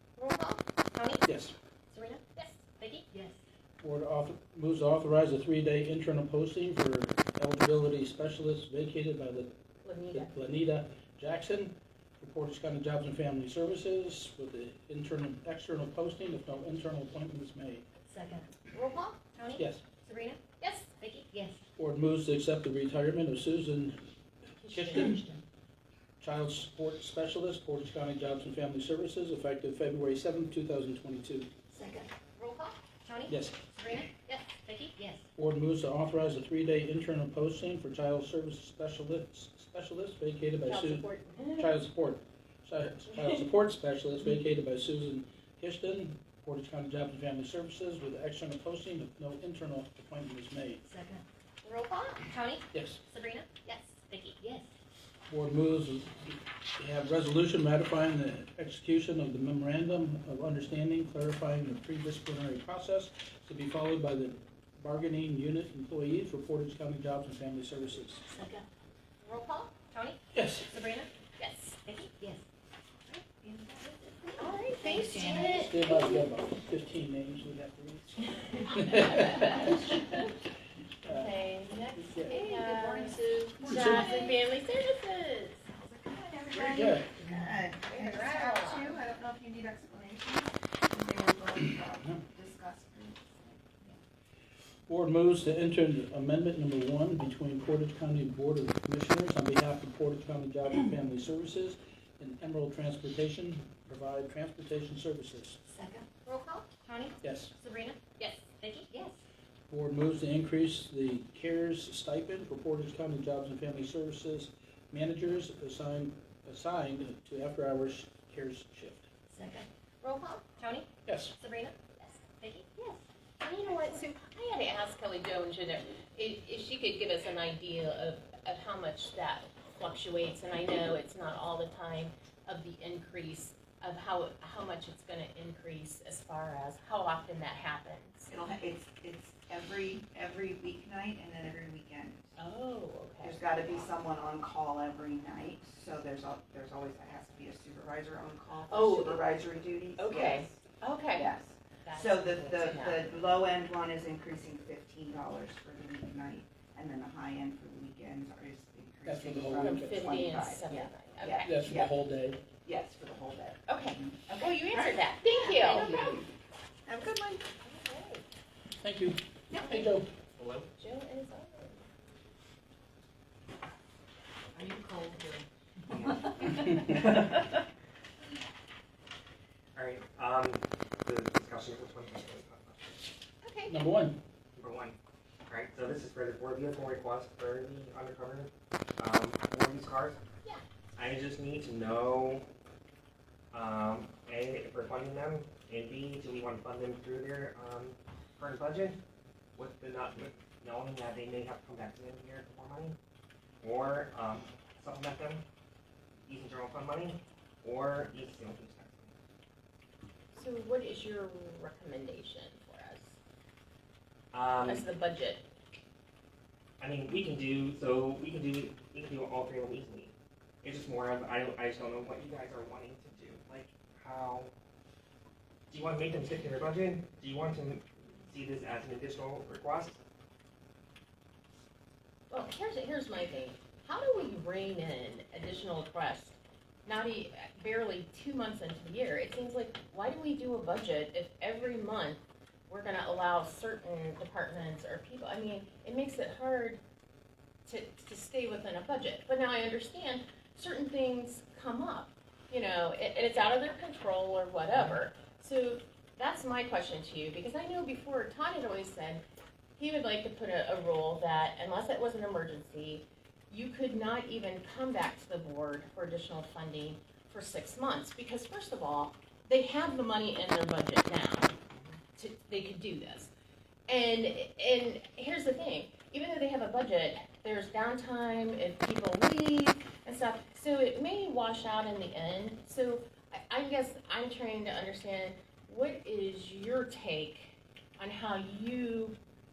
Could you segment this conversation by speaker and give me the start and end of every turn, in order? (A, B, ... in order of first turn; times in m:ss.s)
0:00.2-0:00.6 A
0:00.9-0:01.2 B
0:01.2-0:01.5 C
0:01.9-0:03.0 B
0:03.1-0:03.4 D
0:03.8-0:09.6 C
0:09.8-0:10.3 A
0:10.1-0:17.8 C
0:18.1-0:18.5 D
0:18.7-0:19.2 A
0:19.3-0:20.4 B
0:19.6-0:19.8 C
0:20.6-0:21.0 A
0:21.0-0:21.2 B
0:21.3-0:21.6 D
0:21.8-0:24.0 C
0:24.6-0:25.4 A
0:24.7-0:25.2 C
0:26.2-0:31.5 C
0:31.7-0:32.1 D
0:32.4-0:32.8 A
0:33.0-0:34.9 B
0:33.3-0:33.6 C
0:34.2-0:34.4 A
0:35.0-0:35.2 D
0:35.4-0:50.8 C
0:40.6-0:41.7 A
0:50.8-0:51.2 D
0:51.6-0:52.3 A
0:52.3-0:54.4 B
0:52.7-0:53.0 C
0:54.4-0:54.7 D
0:55.3-1:08.3 C
1:08.3-1:08.6 D
1:09.2-1:09.8 A
1:09.9-1:10.2 B
1:10.3-1:10.7 C
1:10.7-1:11.1 B
1:11.4-1:12.0 A
1:12.2-1:12.4 D
1:13.1-1:15.9 D
1:14.4-1:16.0 A
1:15.5-1:20.3 C
1:18.6-1:20.2 A
1:21.0-1:21.3 C
1:21.0-1:25.6 A
1:21.9-1:22.4 C
1:23.6-1:24.1 C
1:25.8-1:33.8 E
1:26.5-1:27.2 C
1:27.8-1:28.9 A
1:34.9-1:45.6 C
1:45.6-1:46.1 D
1:46.2-1:46.6 A
1:46.3-1:48.9 B
1:47.2-1:47.5 C
1:48.9-1:49.2 D
1:49.7-1:59.1 C
1:59.3-1:59.7 D
2:00.0-2:00.5 A
2:00.6-2:00.9 B
2:01.0-2:01.4 C
2:01.4-2:01.8 B
2:02.4-2:02.8 B
2:03.4-2:18.3 A
2:18.3-2:22.3 E
2:22.4-2:23.4 A
2:23.2-2:30.6 E
2:28.7-2:29.3 A
2:30.0-2:31.3 A
2:31.1-2:41.9 E
2:31.8-2:33.0 A
2:39.0-2:40.0 C
2:39.5-2:41.6 A
2:41.4-2:42.4 C
2:42.6-2:46.3 E
2:43.7-2:46.2 A
2:45.6-2:46.1 D
2:46.8-2:47.4 E
2:47.6-2:48.2 A
2:48.8-2:50.1 C
2:50.4-2:50.7 F
2:50.8-2:51.9 A
2:54.5-2:55.4 D
2:55.9-2:57.4 F
2:59.7-3:03.1 F
3:03.4-3:03.8 A
3:03.7-3:04.2 C
3:04.6-3:05.0 F
3:05.5-3:10.2 F
3:10.9-3:12.4 F
3:13.5-3:19.0 F
3:19.6-3:23.0 F
3:23.6-3:25.4 F
3:26.2-3:29.1 F
3:30.3-3:33.2 A
3:34.3-3:34.9 F
3:34.6-3:35.4 A
3:36.8-3:44.5 F
3:45.7-3:50.0 F
3:52.3-4:06.8 A
4:07.6-4:19.2 A
4:14.7-4:15.0 F
4:19.8-4:31.5 A
4:32.2-4:33.3 A
4:33.9-4:49.2 A